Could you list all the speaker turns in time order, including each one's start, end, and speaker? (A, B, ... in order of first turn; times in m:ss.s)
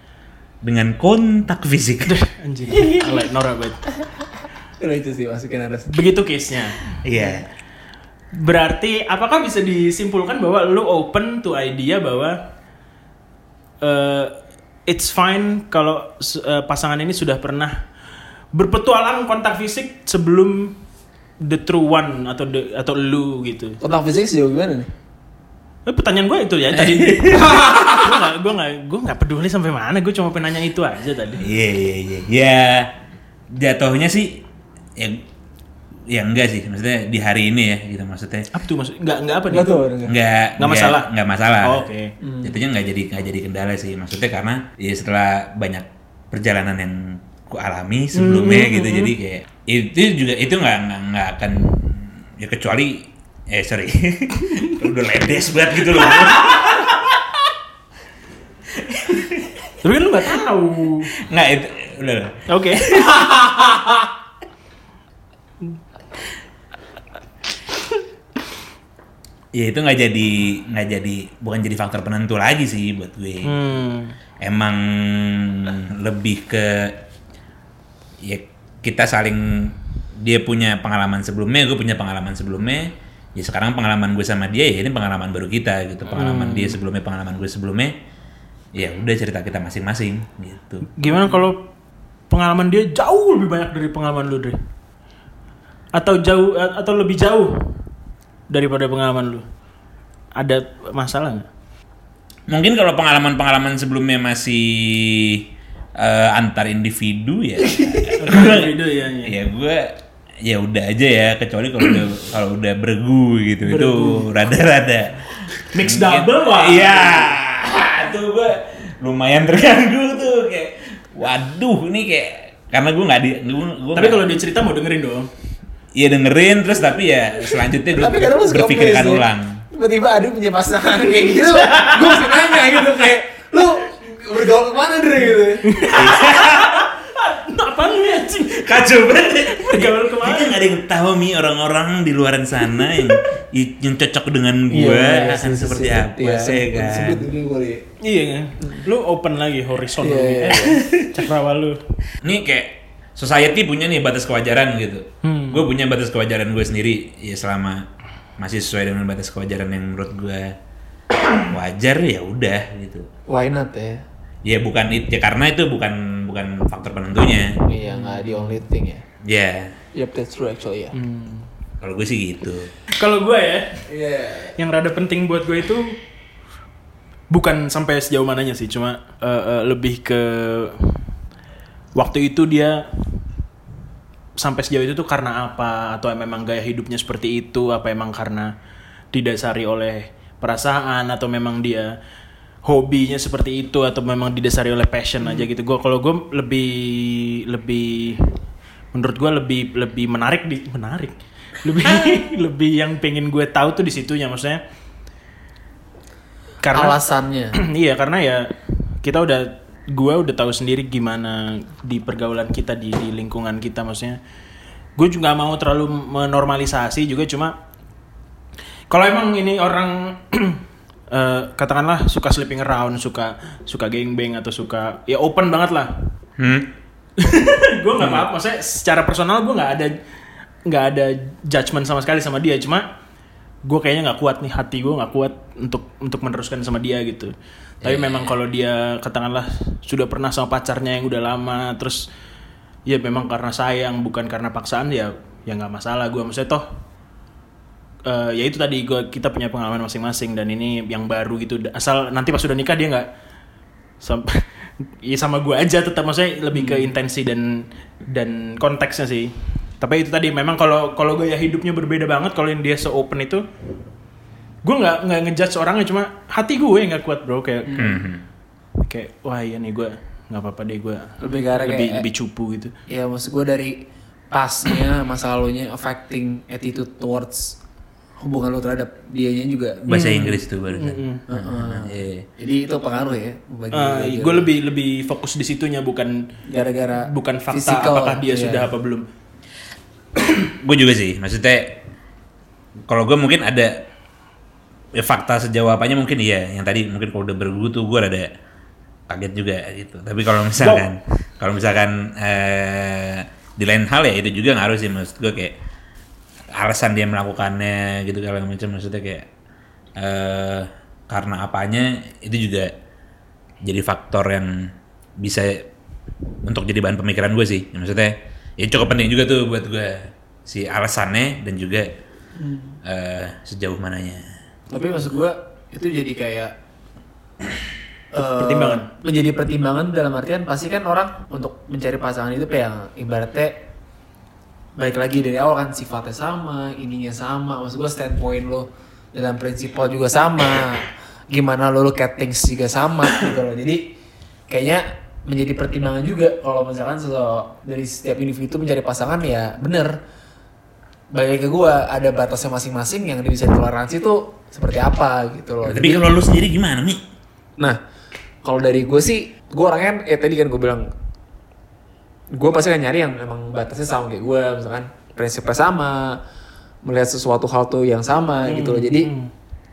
0:00.6-0:02.2 A
0:02.0-0:03.8 B
0:02.7-0:03.2 C
0:04.8-0:05.9 C
0:05.9-0:06.8 B
0:07.0-0:07.4 A
0:08.3-0:12.4 B
0:13.8-0:14.3 B
0:14.9-0:17.8 B
0:18.5-0:20.8 B
0:21.4-0:23.8 B
0:23.8-0:24.9 C
0:25.9-0:31.5 B
0:26.7-0:27.9 A
0:27.5-0:27.9 C
0:31.4-0:32.9 A
0:33.5-0:34.4 A
0:35.0-0:35.2 A
0:36.1-0:38.5 A
0:38.5-0:39.7 B
0:39.5-0:40.1 C
0:40.0-0:41.8 A
0:40.6-0:41.1 B
0:41.6-0:42.1 B
0:42.2-0:42.5 C
0:42.4-0:57.0 A
0:48.1-0:49.1 B
0:58.8-0:59.6 A
0:59.8-1:01.1 B
1:01.2-1:02.4 A
1:02.5-1:03.2 B
1:03.2-1:03.6 C
1:09.5-1:13.6 A
1:13.4-1:14.1 B
1:14.4-1:17.0 A
1:18.2-1:28.0 A
1:26.1-1:26.8 B
1:28.7-1:30.9 A
1:31.0-1:31.7 B
1:32.3-1:34.6 B
1:35.9-1:37.7 B
1:38.5-1:39.4 B
1:40.4-1:41.5 B
1:42.5-1:48.7 A
1:48.1-1:49.3 B
1:49.2-1:49.9 A
1:50.4-2:04.3 A
1:53.6-1:54.3 B
1:55.7-1:57.3 B
2:03.9-2:05.3 B
2:05.9-2:09.6 A
2:07.8-2:15.7 C
2:11.6-2:12.1 B
2:15.6-2:18.7 B
2:15.9-2:16.8 A
2:18.5-2:27.2 A
2:19.5-2:20.6 B
2:24.7-2:27.9 C
2:28.0-2:31.8 B
2:30.0-2:30.9 C
2:32.2-2:37.9 A
2:35.2-2:35.6 B
2:38.4-2:40.6 A
2:41.3-2:43.1 A
2:43.3-2:44.0 C
2:44.4-2:47.6 A
2:47.7-2:49.0 C
2:47.9-2:48.5 B
2:49.2-2:49.8 A
2:49.9-2:51.0 C
2:50.9-2:51.5 B
2:51.8-2:52.7 A
2:52.9-2:53.8 B
2:53.9-2:54.6 C
2:54.6-2:56.0 B
2:57.3-3:01.0 B
3:02.0-3:02.9 B
3:04.4-3:08.5 B
3:09.1-3:12.0 B
3:12.6-3:18.3 B
3:18.9-3:24.6 B
3:26.6-3:27.0 B
3:26.7-3:27.6 C
3:27.6-3:34.2 B
3:35.0-3:37.6 B
3:38.9-3:45.9 B
3:46.4-3:46.7 A
3:47.2-3:50.0 B
3:48.0-3:48.2 A
3:50.6-3:52.9 B
3:53.6-4:02.1 B
3:57.8-3:58.3 A
4:02.9-4:06.6 B
4:08.0-4:13.1 B
4:14.0-4:23.4 B
4:16.5-4:16.9 C
4:24.6-4:28.0 B
4:27.8-4:28.2 A
4:28.8-4:32.7 B
4:31.2-4:32.0 C
4:32.9-4:37.6 C
4:38.2-4:40.2 C
4:39.9-4:42.3 A
4:39.9-4:41.2 B
4:41.3-4:44.5 C
4:43.7-4:46.2 B
4:46.5-4:48.7 C
4:47.0-4:49.0 B
4:50.6-4:51.8 A
4:52.9-4:53.9 A
4:55.0-4:58.3 A
4:59.1-5:05.6 A
5:00.6-5:00.8 B
5:06.5-5:09.3 A
5:10.0-5:12.7 A
5:13.6-5:15.7 A
5:16.4-5:21.9 A
5:22.4-5:22.8 C
5:22.8-5:24.2 A
5:24.7-5:26.5 C
5:28.1-5:33.6 C
5:28.2-5:28.9 B
5:34.8-5:43.9 C
5:44.5-5:50.0 C
5:51.1-5:56.1 C
5:55.6-5:57.0 A
5:58.4-6:00.9 C
6:02.3-6:06.2 C
6:06.8-6:09.1 C
6:08.4-6:09.3 B